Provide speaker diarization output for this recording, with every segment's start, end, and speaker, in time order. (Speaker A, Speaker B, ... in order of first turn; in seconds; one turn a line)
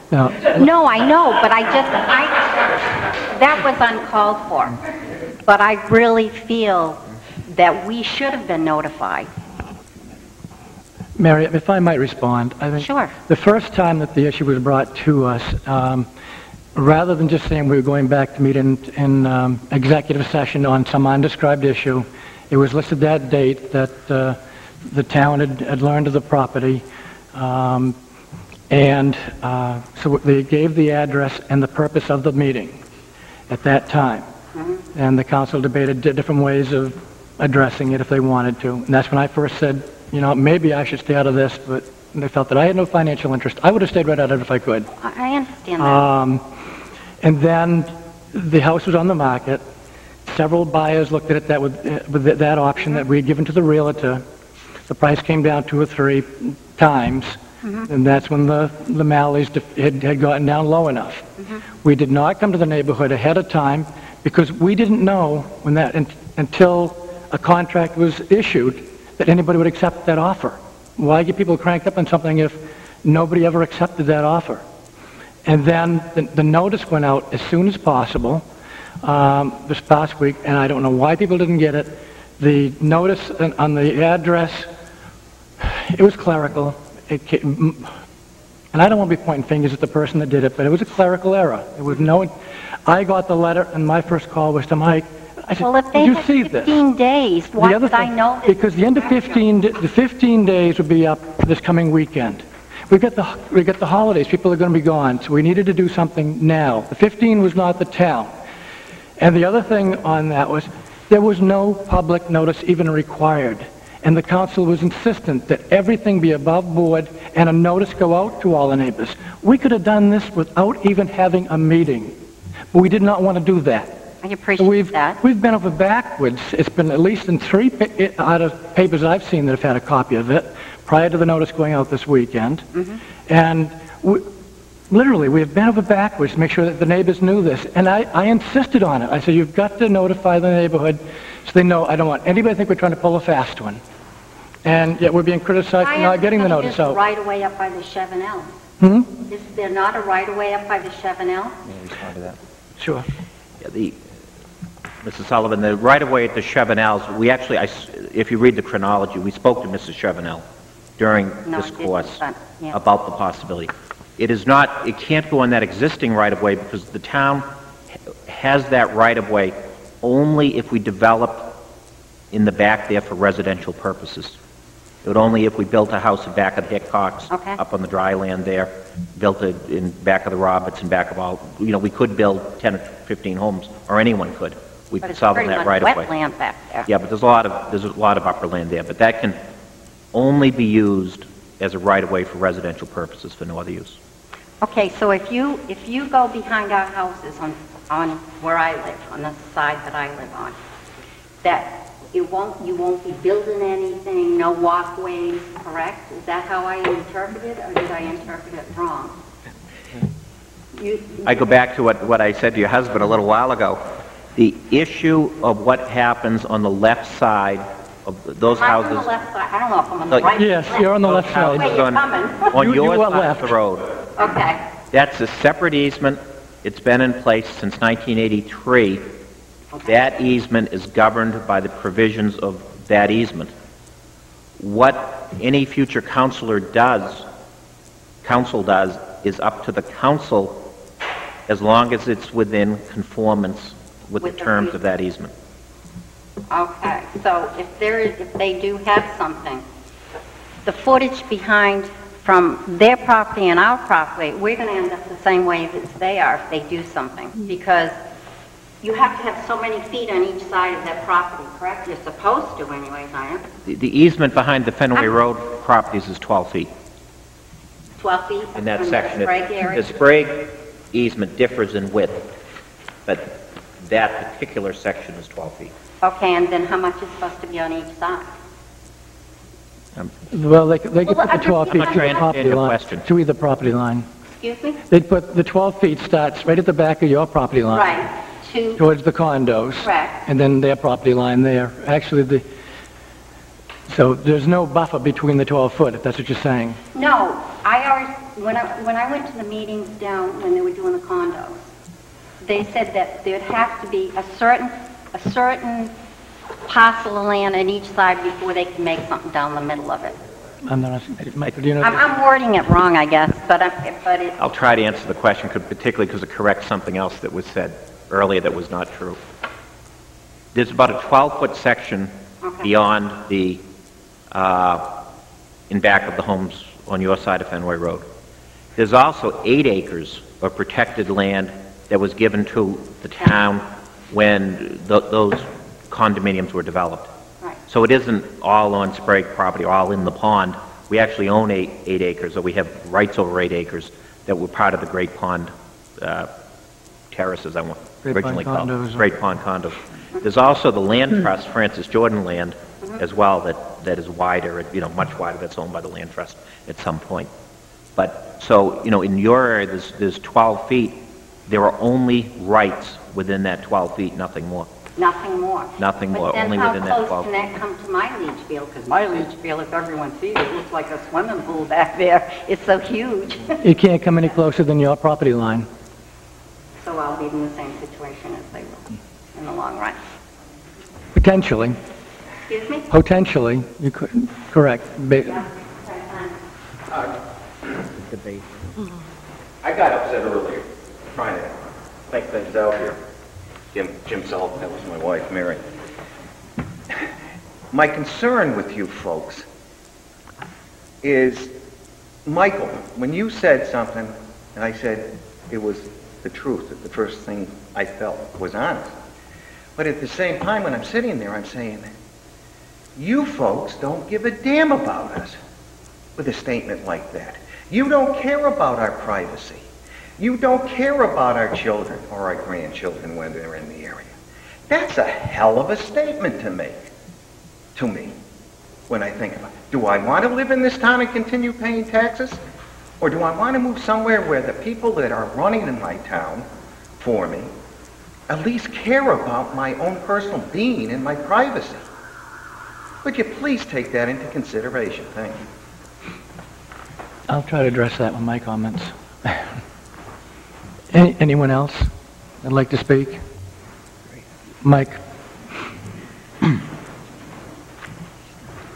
Speaker A: 0.1-0.6
Speaker B: 0.5-4.8
Speaker B: 5.5-9.3
Speaker A: 11.2-16.1
Speaker B: 12.8-13.1
Speaker A: 16.8-28.0
Speaker A: 28.7-32.8
Speaker A: 33.5-34.3
Speaker B: 34.5-34.8
Speaker A: 34.9-44.9
Speaker B: 45.0-46.1
Speaker A: 45.8-46.5
Speaker A: 47.2-49.6
Speaker A: 50.3-54.2
Speaker A: 54.9-61.3
Speaker B: 57.6-57.9
Speaker B: 61.4-61.6
Speaker A: 61.8-74.6
Speaker A: 75.5-78.5
Speaker A: 79.0-84.7
Speaker A: 85.6-87.9
Speaker A: 88.7-92.3
Speaker A: 92.9-96.8
Speaker B: 95.6-99.5
Speaker A: 97.6-108.3
Speaker A: 109.2-122.2
Speaker A: 122.7-124.0
Speaker B: 124.2-125.2
Speaker A: 124.6-132.7
Speaker B: 132.7-133.0
Speaker A: 133.3-134.3
Speaker A: 134.9-143.8
Speaker A: 144.7-147.0
Speaker B: 145.8-148.5
Speaker A: 148.8-149.1
Speaker B: 149.3-151.6
Speaker C: 151.7-152.4
Speaker A: 152.8-153.1
Speaker C: 153.6-154.0
Speaker C: 155.0-160.4
Speaker C: 161.0-167.5
Speaker B: 161.4-162.8
Speaker C: 168.3-171.6
Speaker C: 172.3-174.4
Speaker C: 175.0-186.1
Speaker B: 177.3-177.6
Speaker B: 185.0-186.9
Speaker C: 186.9-189.4
Speaker C: 190.1-194.0
Speaker B: 194.6-200.6
Speaker B: 201.4-209.2
Speaker B: 210.8-211.6
Speaker C: 211.2-213.8
Speaker C: 214.4-219.1
Speaker B: 218.5-222.7
Speaker A: 220.3-221.7
Speaker C: 220.9-223.9
Speaker A: 222.5-223.6
Speaker B: 224.2-224.6
Speaker C: 224.9-229.1
Speaker B: 229.7-230.2
Speaker C: 229.9-233.5
Speaker C: 234.6-237.3
Speaker C: 238.2-240.7
Speaker C: 241.5-245.3
Speaker B: 244.2-244.8
Speaker B: 246.5-249.7
Speaker B: 250.7-258.0
Speaker B: 258.8-263.4
Speaker C: 263.7-266.7
Speaker B: 268.0-270.0
Speaker C: 268.6-272.3
Speaker C: 273.1-275.7
Speaker B: 276.0-278.3
Speaker A: 280.3-284.1
Speaker B: 281.1-282.4
Speaker C: 281.7-283.1
Speaker B: 284.3-284.8
Speaker A: 284.9-287.9
Speaker B: 287.7-288.8
Speaker A: 288.8-292.4
Speaker B: 289.8-290.2
Speaker A: 293.9-296.8
Speaker B: 296.9-301.7
Speaker B: 302.4-305.9
Speaker B: 306.7-310.2
Speaker A: 310.7-312.0
Speaker B: 311.8-314.4
Speaker C: 314.4-319.2
Speaker C: 320.5-323.6
Speaker B: 322.4-322.7
Speaker C: 324.3-324.9
Speaker C: 325.7-328.1
Speaker C: 328.8-337.1
Speaker C: 337.7-346.3
Speaker C: 347.1-357.3
Speaker A: 348.0-349.1
Speaker C: 358.0-364.7
Speaker B: 365.0-373.6
Speaker C: 365.8-367.3
Speaker A: 373.6-375.7
Speaker B: 376.8-380.0
Speaker A: 381.1-381.8
Speaker B: 382.5-382.9
Speaker A: 382.9-385.4
Speaker B: 385.2-386.4
Speaker D: 389.6-391.6
Speaker D: 392.1-393.0
Speaker D: 393.7-395.6
Speaker D: 397.7-399.5
Speaker D: 401.0-401.5
Speaker D: 402.3-408.9
Speaker D: 409.8-411.9
Speaker D: 413.0-415.4
Speaker D: 416.2-419.7
Speaker D: 420.2-424.1
Speaker D: 424.7-426.9
Speaker D: 427.8-428.2
Speaker D: 428.9-432.4
Speaker D: 433.0-436.5
Speaker D: 437.0-437.5
Speaker D: 438.3-441.9
Speaker D: 443.0-445.4
Speaker A: 447.3-449.6
Speaker A: 450.9-451.9
Speaker A: 452.4-453.2
Speaker A: 454.6-455.0